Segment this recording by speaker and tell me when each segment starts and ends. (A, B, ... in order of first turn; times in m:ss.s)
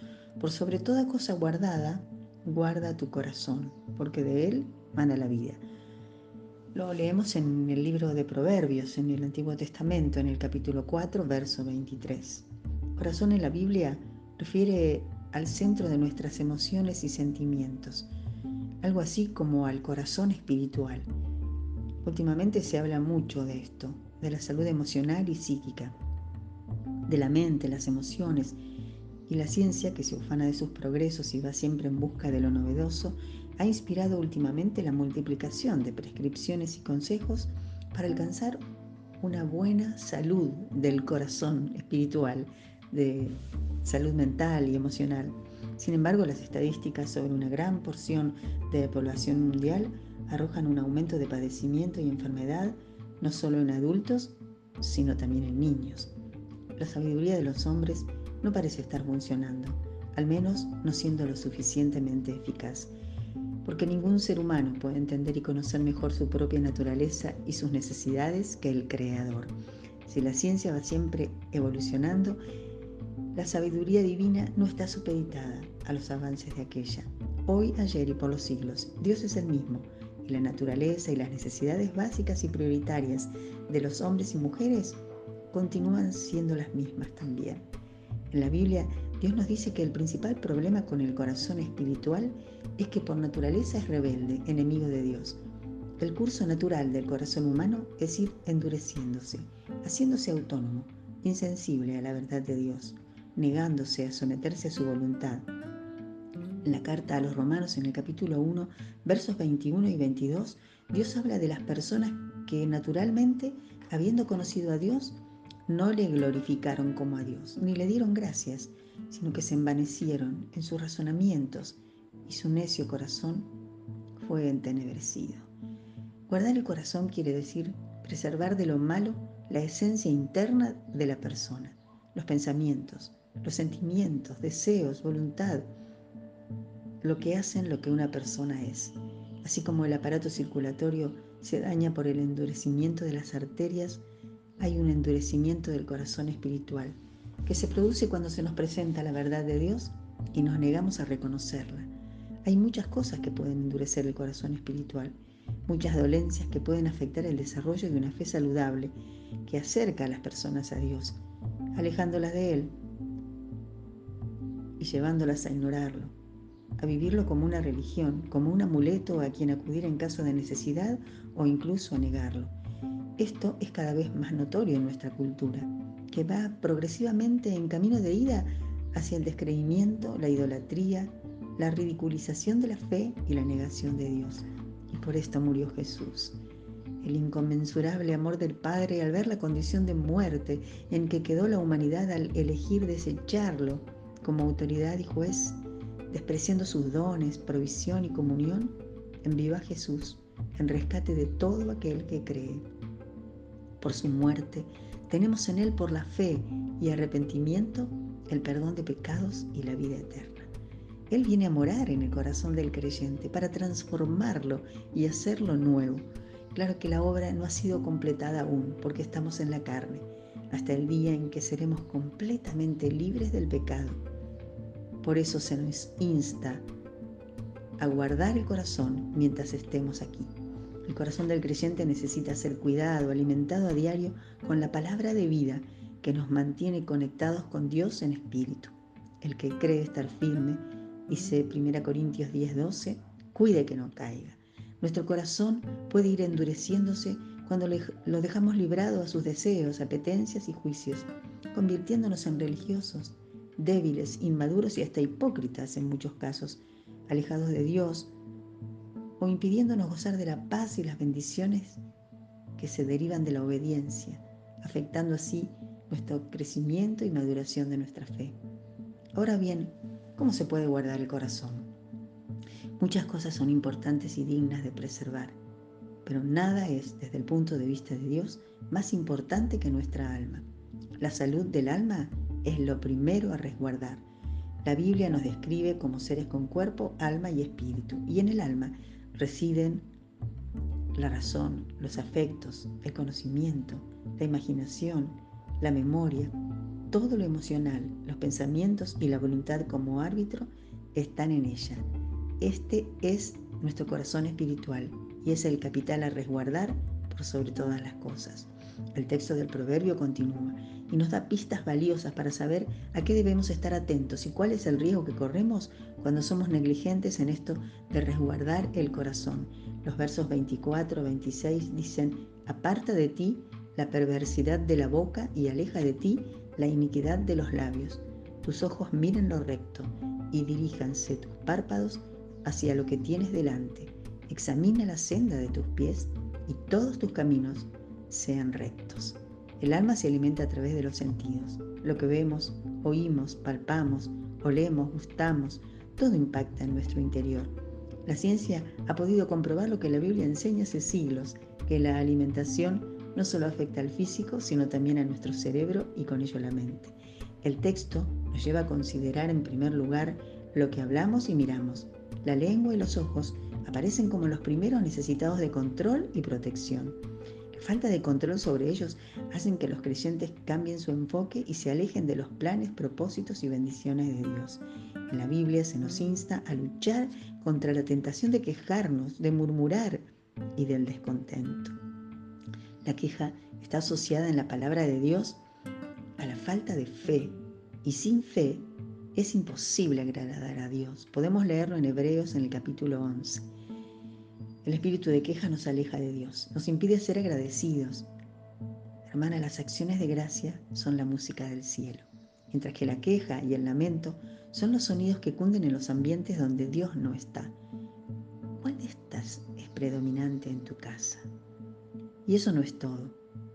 0:00.4-0:05.6 A
0:06.7-0:18.1 A
0:18.8-0:21.1 A
0:22.0-0:26.0 A
0:27.1-0:28.6 A
0:29.3-0:38.6 A
0:39.2-0:56.1 A
0:56.8-1:02.9 A
1:03.6-1:09.5 A
1:10.0-1:12.4 A
1:13.3-1:27.6 A
1:28.3-1:35.4 A
1:36.0-1:45.5 A
1:46.6-2:03.5 A
2:04.2-2:05.5 A
2:06.3-2:15.7 A
2:17.0-2:24.0 A
2:24.6-2:31.9 A
2:32.4-2:41.2 A
2:41.7-2:42.7 A
2:44.8-2:46.1 A
2:46.8-2:52.5 A
2:53.2-3:06.4 A
3:07.0-3:22.6 A
3:23.8-3:30.5 A
3:31.1-3:44.0 A
3:45.0-3:46.6 A
3:47.8-3:50.3 A
3:50.8-4:18.1 A
4:19.2-4:21.8 A
4:22.6-4:28.4 A
4:29.1-4:31.7 A
4:32.8-4:35.4 A
4:36.0-4:40.5 A
4:41.0-4:44.0 A
4:44.6-4:49.9 A
4:50.9-4:56.3 A
4:56.9-5:01.8 A
5:02.4-6:07.0 A
6:07.5-6:21.8 A
6:22.8-6:25.4 A
6:26.2-6:33.5 A
6:34.6-6:38.1 A
6:39.0-6:47.6 A
6:48.6-6:51.3 A
6:52.2-6:53.2 A